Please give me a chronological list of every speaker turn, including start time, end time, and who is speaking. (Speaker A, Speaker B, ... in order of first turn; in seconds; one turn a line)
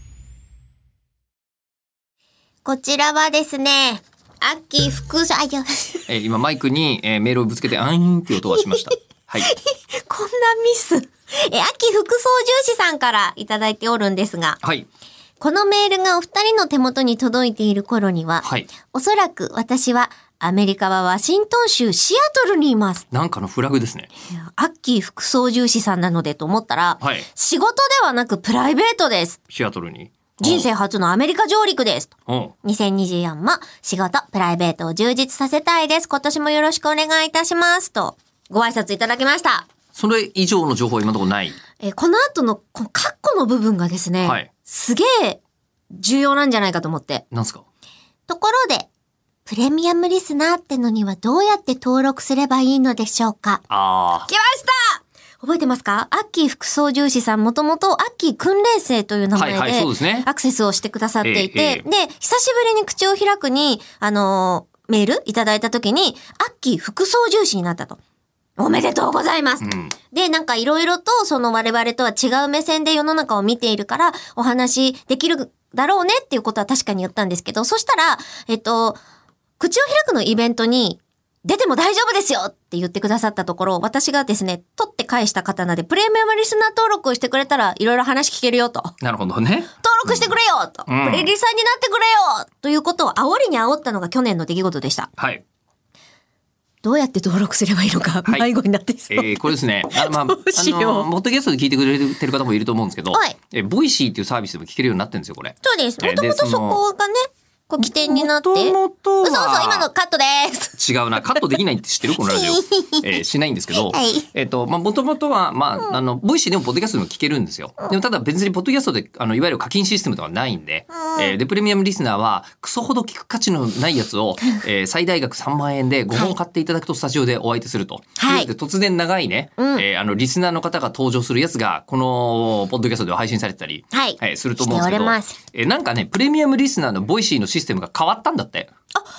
Speaker A: 2.6-6.0
Speaker B: 6.1-9.5
Speaker A: 8.5-8.8
Speaker A: 9.4-14.6
Speaker A: 15.4-23.1
Speaker B: 18.4-18.7
Speaker B: 23.1-24.1
Speaker A: 24.3-29.4
Speaker B: 27.0-27.2
Speaker B: 29.5-30.7
Speaker A: 30.4-32.1
Speaker B: 32.3-32.5
Speaker A: 32.6-39.7
Speaker B: 39.9-41.6
Speaker A: 41.8-45.4
Speaker B: 44.2-44.5
Speaker A: 45.9-47.2
Speaker B: 47.3-47.6
Speaker A: 48.3-48.9
Speaker A: 49.5-53.6
Speaker B: 53.7-54.3
Speaker A: 54.3-68.0
Speaker B: 59.3-60.2
Speaker B: 61.2-61.8
Speaker A: 68.6-79.0
Speaker B: 69.6-69.9
Speaker A: 79.6-88.9
Speaker B: 89.0-90.3
Speaker A: 89.8-95.1
Speaker B: 90.9-91.3
Speaker B: 95.2-95.4
Speaker A: 96.8-101.1
Speaker B: 99.1-106.8
Speaker A: 105.6-110.8
Speaker B: 107.8-109.9
Speaker B: 110.8-138.7
Speaker A: 112.2-113.1
Speaker A: 113.7-114.3
Speaker A: 120.9-121.3
Speaker A: 128.2-128.5
Speaker A: 129.6-129.8
Speaker A: 133.9-135.4